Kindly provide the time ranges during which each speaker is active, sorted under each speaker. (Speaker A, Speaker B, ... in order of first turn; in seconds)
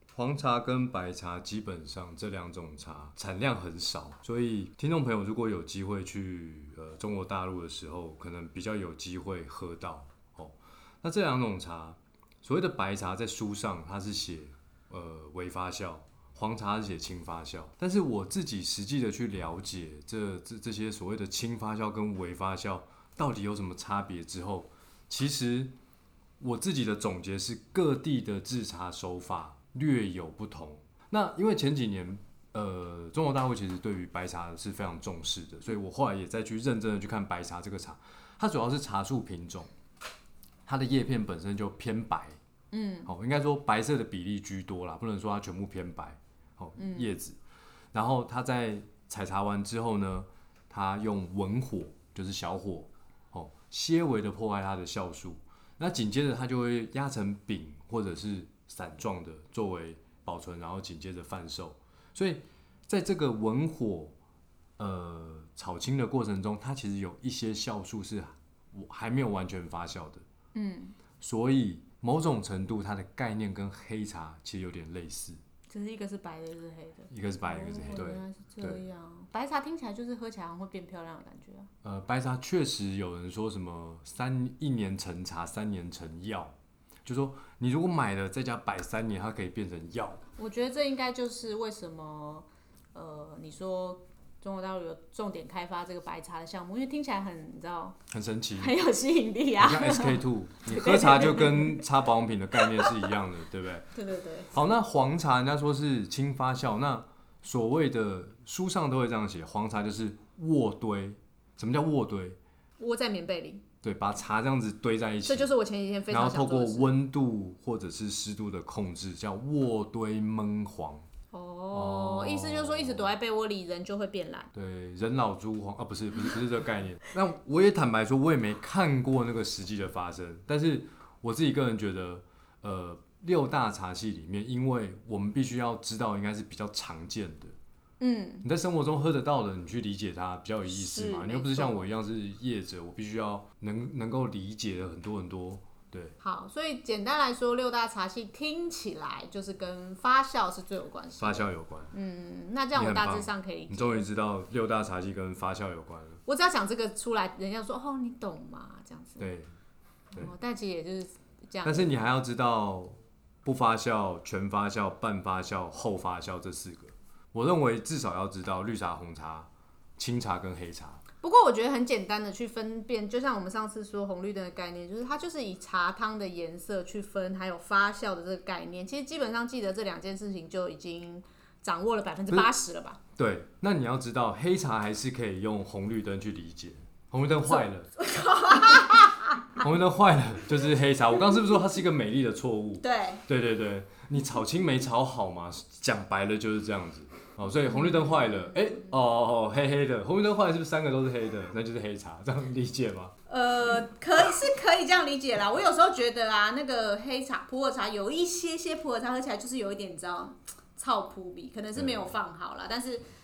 Speaker A: 0.1-25.7, 26.4-39.7, 40.6-42.4, 43.1-47.4, 47.9-64.1, 64.8-70.2, 71.2-75.4, 77.1-78.8, 81.8-86.5, 87.0-90.2, 98.1-98.8, 99.6-103.9, 104.5-112.4, 113.8-115.5, 116.1-121.0, 121.7-123.1, 124.5-137.6, 138.4-146.1, 151.2-151.9, 152.8-156.2, 159.2-159.5, 161.6-171.0, 183.2-187.9, 189.6-203.1, 211.8-212.1
Speaker B: 42.7-43.1, 46.8-47.1, 70.5-71.0, 75.7-81.7, 90.4-98.0, 98.6-101.8, 102.6-103.1, 103.9-104.5, 112.8-113.6, 115.2-116.9, 121.3-124.5, 138.0-138.5, 140.7-141.9, 146.2-154.1, 156.2-159.2, 160.1-161.9, 171.2-183.0, 188.0-189.6, 192.8-193.2, 197.7-198.6, 203.3-213.1